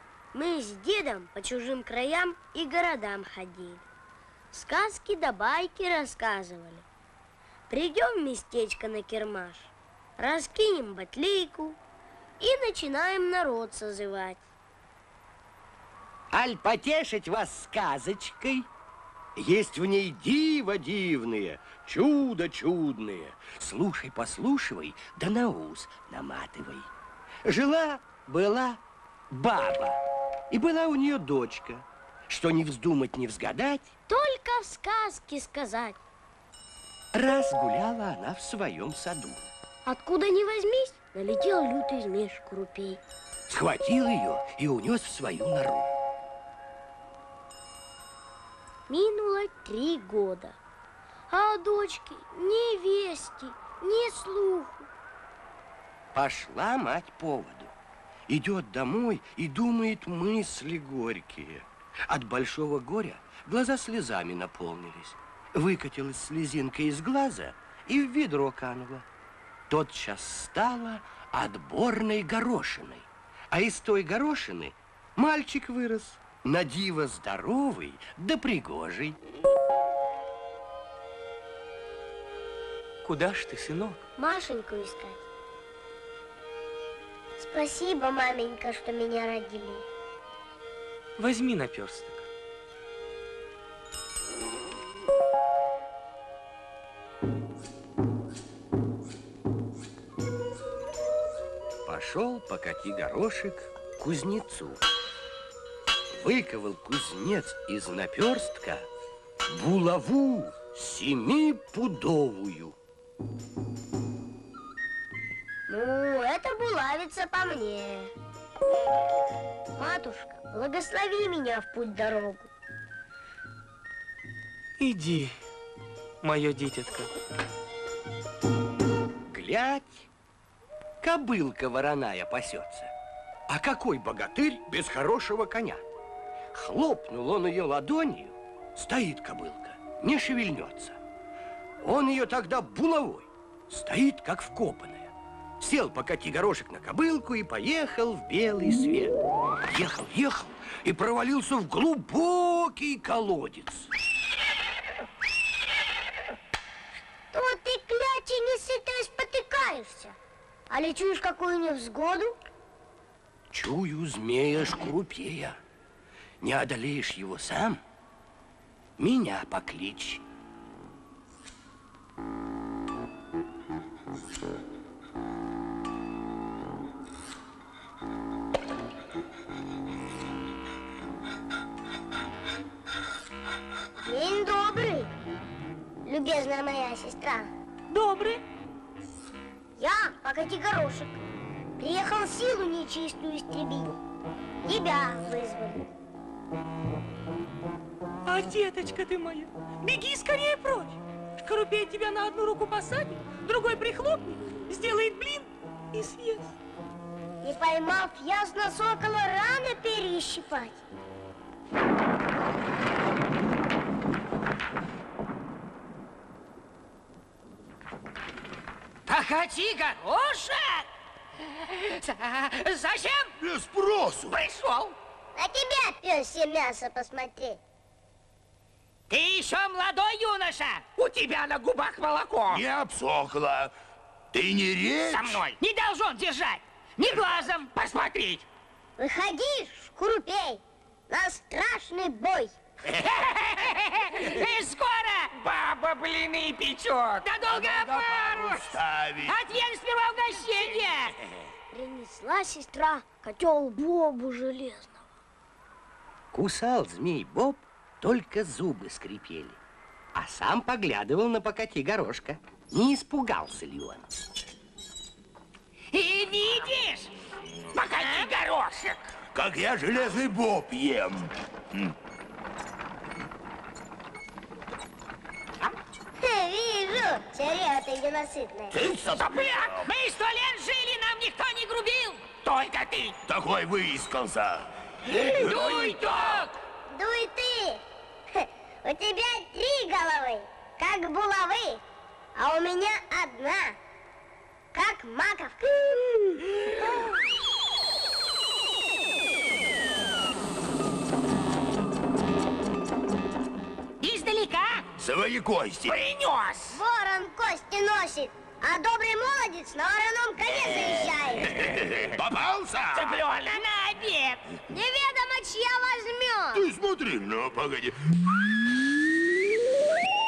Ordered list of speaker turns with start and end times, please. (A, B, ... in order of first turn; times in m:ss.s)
0:00.3-0:03.8 A
0:04.5-0:06.8 A
0:07.7-0:11.8 A
0:12.4-0:14.4 A
0:16.3-0:18.7 B
0:19.4-0:26.9 B
0:27.4-0:33.9 B
0:34.1-0:36.0 A
0:37.1-0:39.5 B
0:39.8-0:43.0 A
0:43.5-0:45.9 B
0:48.9-0:50.6 A
0:51.3-0:54.9 A
0:56.1-0:57.8 B
0:58.3-1:09.0 B
1:09.7-1:19.2 B
1:23.0-1:24.0 C
1:24.2-1:25.2 A
1:27.4-1:29.8 A
1:31.2-1:32.3 C
1:41.8-1:44.8 B
1:46.1-1:48.9 B
1:49.4-1:52.8 B
1:55.7-1:58.1 A
1:59.8-2:02.5 A
2:04.8-2:05.4 C
2:06.2-2:07.1 C
2:09.3-2:10.1 B
2:11.0-2:12.9 B
2:13.5-2:15.8 B
2:16.5-2:21.0 B
2:21.8-2:33.9 B
2:37.3-2:40.2 A
2:40.7-2:42.4 A
2:43.5-2:45.6 B
2:46.4-2:47.8 B
2:49.0-2:50.2 B
3:04.0-3:05.1 A
3:06.0-3:07.5 A
3:07.9-3:08.4 D
3:09.8-3:11.2 A
3:11.8-3:13.9 A
3:14.6-3:15.9 A
3:18.3-3:26.4 D
3:18.4-3:19.4 C
3:20.4-3:20.8 C
3:22.3-3:24.2 C
3:24.7-3:25.3 C
3:25.9-3:26.4 C
3:27.4-3:30.8 A
3:39.1-3:40.9 E
3:41.6-3:43.3 E
3:43.4-3:44.4 F
3:44.3-3:44.9 E
3:45.4-3:47.6 A
3:49.1-3:52.6 E
3:52.5-3:53.7 F
3:54.3-3:55.4 F
3:55.1-3:58.4 E
3:59.0-4:02.6 A
4:02.9-4:11.2 E
4:07.4-4:09.4 F
4:11.7-4:15.0 A
4:16.3-4:19.6 B
4:20.1-4:24.1 B
4:25.9-4:27.1 E
4:27.7-4:29.1 E
4:29.3-4:31.9 F
4:36.2-4:38.8 A
4:38.7-4:39.8 F
4:39.1-4:43.2 E
4:43.2-4:46.4 F
4:45.1-4:46.5 E
4:46.9-4:51.8 A
4:52.3-4:53.8 A
4:54.7-4:56.4 A
5:04.0-5:04.9 E
5:05.0-5:06.0 F
5:05.8-5:06.8 E
5:06.7-5:11.6 A
5:11.6-5:13.2 F
5:12.9-5:14.4 E
5:14.7-5:16.7 A
5:16.5-5:18.1 F